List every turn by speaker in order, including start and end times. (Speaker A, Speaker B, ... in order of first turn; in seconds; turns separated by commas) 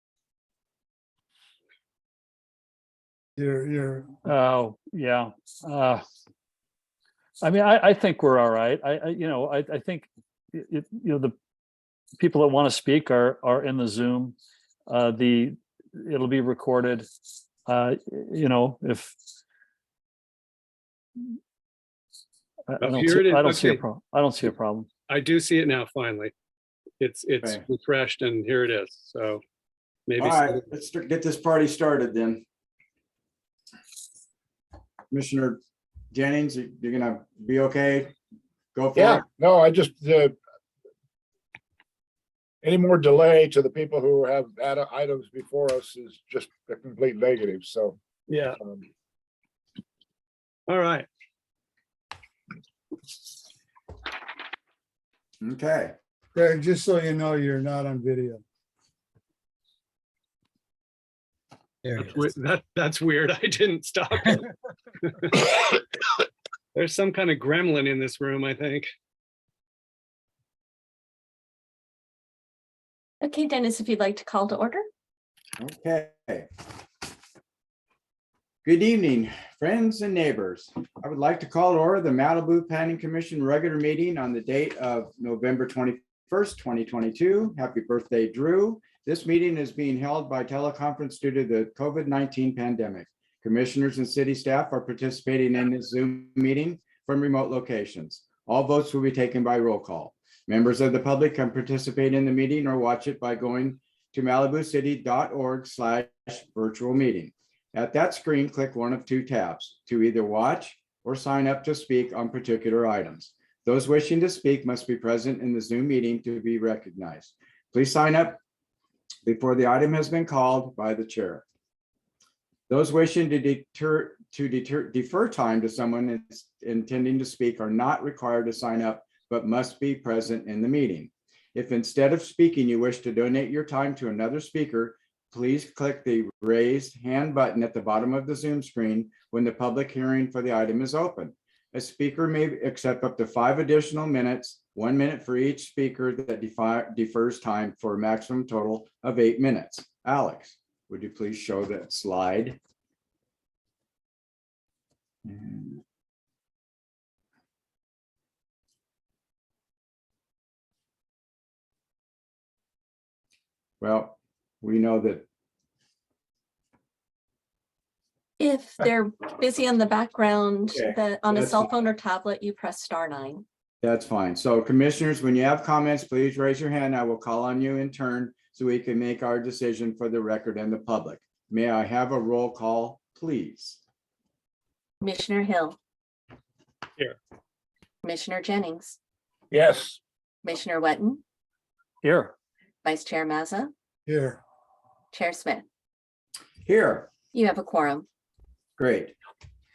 Speaker A: 3.4-4.2, Speaker B: 4.2-6.0, Speaker B: 7.4-11.3, Speaker B: 12.2-14.3, Speaker B: 14.9-17.1, Speaker B: 17.6-19.1, Speaker B: 22.7-24.9, Speaker C: 22.8-23.8, Speaker C: 25.1-26.3, Speaker C: 27.0-29.4, Speaker C: 30.1-30.6, Speaker D: 30.2-32.4, Speaker D: 35.1-35.6, Speaker D: 36.1-38.1, Speaker D: 38.7-39.2, Speaker E: 39.0-40.4, Speaker E: 42.6-48.0, Speaker C: 48.3-48.6, Speaker E: 48.6-48.9, Speaker C: 50.7-51.1, Speaker D: 55.4-56.0, Speaker A: 56.3-58.4, Speaker C: 61.8-64.4, Speaker C: 65.1-65.5, Speaker C: 66.7-68.9, Speaker F: 73.2-74.8, Speaker D: 75.6-76.5, Speaker D: 78.6-118.4, Speaker D: 119.2-121.4, Speaker D: 122.7-152.6, Speaker D: 155.2-155.8, Speaker D: 163.8-165.2, Speaker F: 168.4-173.4, Speaker D: 170.7-171.7, Speaker D: 173.8-183.8, Speaker F: 185.0-185.8, Speaker F: 188.0-189.0, Speaker E: 189.5-190.0, Speaker F: 190.4-191.2, Speaker B: 192.0-192.3, Speaker F: 192.8-193.7, Speaker A: 194.1-194.4, Speaker F: 195.1-195.7, Speaker D: 196.6-197.1, Speaker F: 197.3-198.1, Speaker D: 198.8-199.1